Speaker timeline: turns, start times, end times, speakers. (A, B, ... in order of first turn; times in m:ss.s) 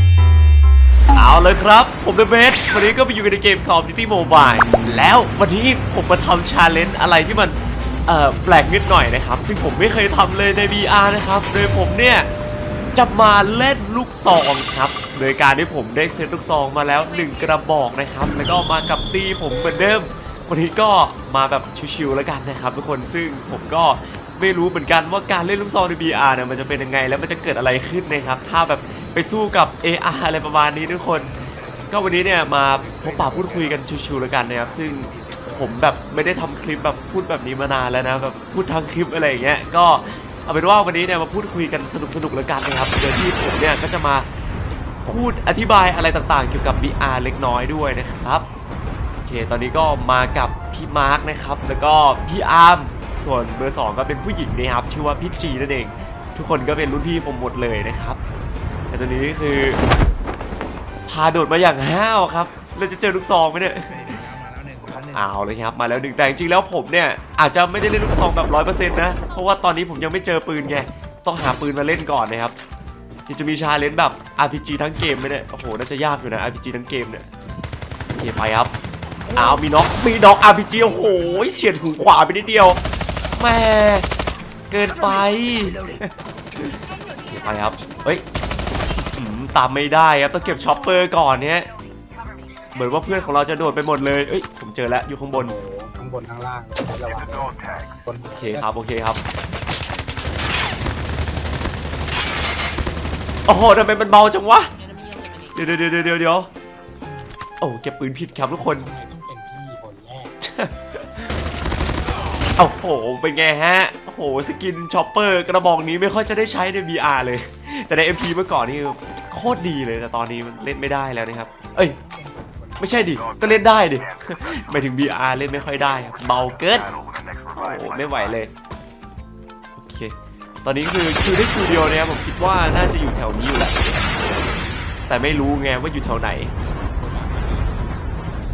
0:01.1-0:12.3 A
0:13.0-0:31.4 A
0:31.9-0:44.3 A
0:45.0-0:48.5 A
0:49.2-0:58.2 A
0:58.9-0:59.8 A
1:01.1-1:12.6 A
1:13.3-1:17.3 A
1:18.1-1:18.7 A
1:19.3-1:22.8 A
1:23.3-1:24.1 A
1:24.7-1:28.2 A
1:29.1-1:31.7 A
1:32.8-1:35.6 A
1:35.3-1:38.7 B
1:38.4-1:39.2 A
1:43.5-1:44.7 A
1:45.4-1:46.5 A
1:47.6-1:48.9 A
1:48.7-1:50.4 B
1:50.4-1:51.2 A
1:52.6-2:02.0 A
2:02.0-2:02.9 B
2:02.8-2:06.9 A
2:07.5-2:08.5 A
2:09.8-2:10.1 A
2:10.6-2:13.8 A
2:15.1-2:16.5 A
2:17.0-2:17.8 B